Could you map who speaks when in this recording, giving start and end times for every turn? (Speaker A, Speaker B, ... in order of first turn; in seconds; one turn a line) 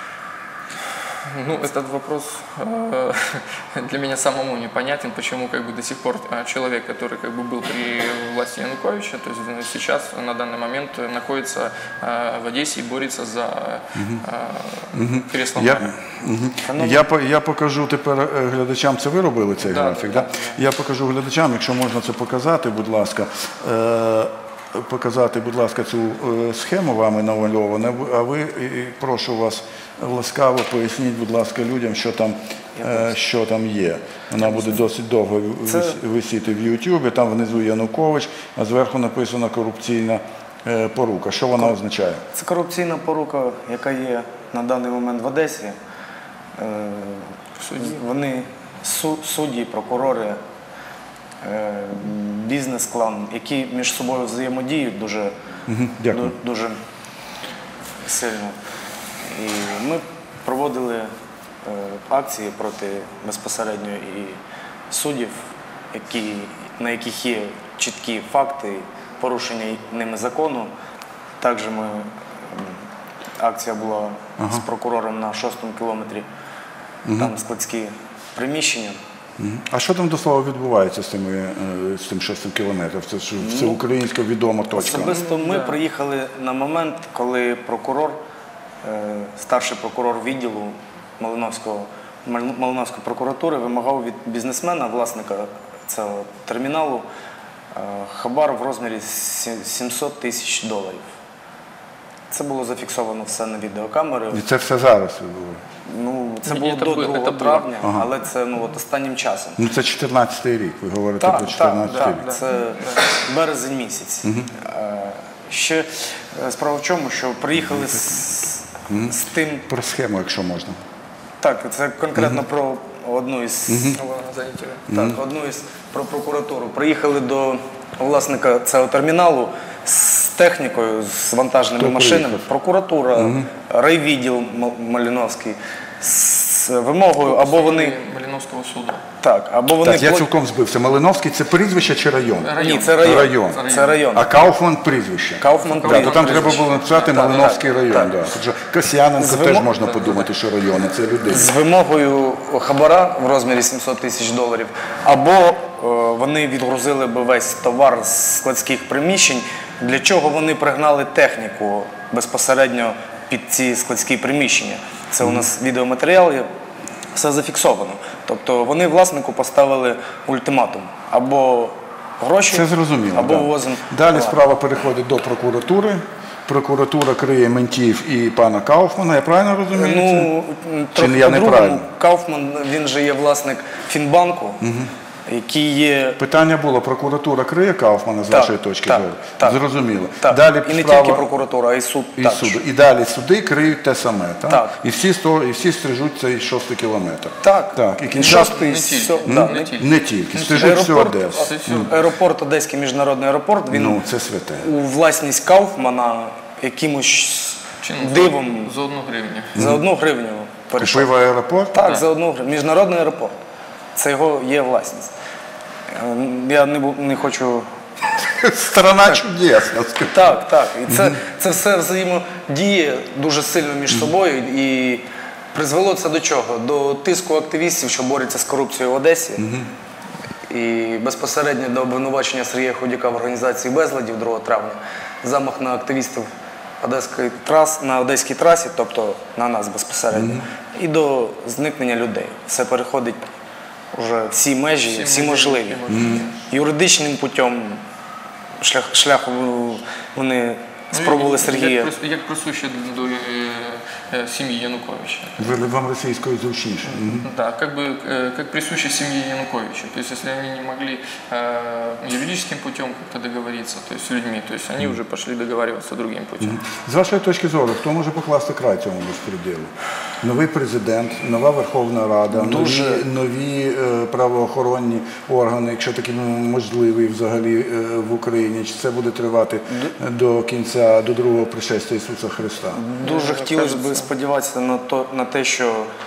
Speaker A: 1.2-15.9
Speaker B: 13.9-14.2
Speaker B: 14.9-42.2
Speaker C: 16.7-17.1
Speaker A: 19.6-20.6
Speaker C: 32.8-33.1
Speaker C: 35.7-36.0
Speaker C: 42.3-45.7
Speaker C: 46.5-50.4
Speaker A: 47.6-48.0
Speaker C: 51.4-55.3
Speaker B: 55.7-56.3
Speaker C: 56.1-56.8
Speaker C: 58.0-58.5
Speaker C: 59.2-61.1
Speaker C: 61.6-64.4
Speaker C: 64.9-65.4
Speaker C: 65.9-70.7
Speaker C: 71.4-72.8
Speaker C: 73.4-76.2
Speaker B: 74.4-74.6
Speaker B: 77.0-77.3
Speaker C: 77.2-79.0
Speaker B: 79.4-85.2
Speaker C: 83.4-83.8
Speaker C: 84.7-88.2
Speaker A: 85.0-85.8
Speaker C: 88.8-97.0
Speaker C: 97.7-101.1
Speaker C: 102.3-104.4
Speaker B: 104.3-105.6
Speaker C: 105.8-109.6
Speaker A: 106.5-107.8
Speaker B: 107.8-108.1
Speaker B: 109.6-112.2
Speaker C: 111.2-119.7
Speaker A: 111.8-113.2
Speaker B: 114.2-114.5
Speaker B: 118.9-120.8
Speaker C: 121.4-124.0
Speaker B: 123.7-124.0
Speaker A: 123.9-124.9
Speaker B: 124.9-125.2
Speaker C: 124.9-138.0
Speaker B: 131.8-132.4
Speaker B: 133.1-133.5
Speaker A: 137.2-139.0
Speaker C: 139.2-140.3
Speaker B: 139.8-151.5
Speaker A: 142.4-144.2
Speaker C: 142.6-144.3
Speaker C: 145.4-148.2
Speaker A: 145.5-147.4
Speaker C: 149.2-149.7
Speaker A: 149.8-150.2
Speaker C: 151.3-166.4
Speaker C: 167.1-174.5
Speaker B: 172.5-180.3
Speaker C: 179.7-184.7
Speaker B: 180.9-181.9
Speaker B: 184.6-184.9
Speaker C: 185.2-186.2
Speaker B: 186.2-191.3
Speaker C: 188.3-189.6
Speaker C: 190.2-192.6
Speaker B: 192.2-198.7
Speaker C: 194.5-194.8
Speaker C: 197.4-199.7
Speaker A: 198.1-202.0
Speaker B: 199.2-201.9
Speaker C: 200.5-204.0
Speaker B: 203.7-204.7
Speaker C: 204.6-208.7
Speaker A: 207.8-209.6
Speaker C: 209.5-211.2
Speaker B: 209.6-209.8
Speaker B: 210.8-211.8
Speaker C: 211.7-213.3
Speaker A: 211.8-212.0
Speaker C: 213.9-215.1
Speaker C: 215.9-217.6
Speaker B: 218.2-220.3
Speaker C: 220.0-229.5
Speaker B: 229.4-229.7
Speaker C: 230.4-236.3
Speaker C: 236.8-243.3
Speaker B: 240.1-240.4
Speaker C: 243.9-245.8
Speaker A: 244.8-246.4
Speaker B: 245.9-246.2
Speaker C: 246.5-247.8
Speaker C: 248.6-251.9
Speaker A: 250.9-255.6
Speaker B: 255.4-257.3
Speaker A: 256.9-266.6
Speaker B: 266.4-282.8
Speaker C: 272.3-273.1
Speaker C: 282.7-285.9
Speaker A: 283.0-284.1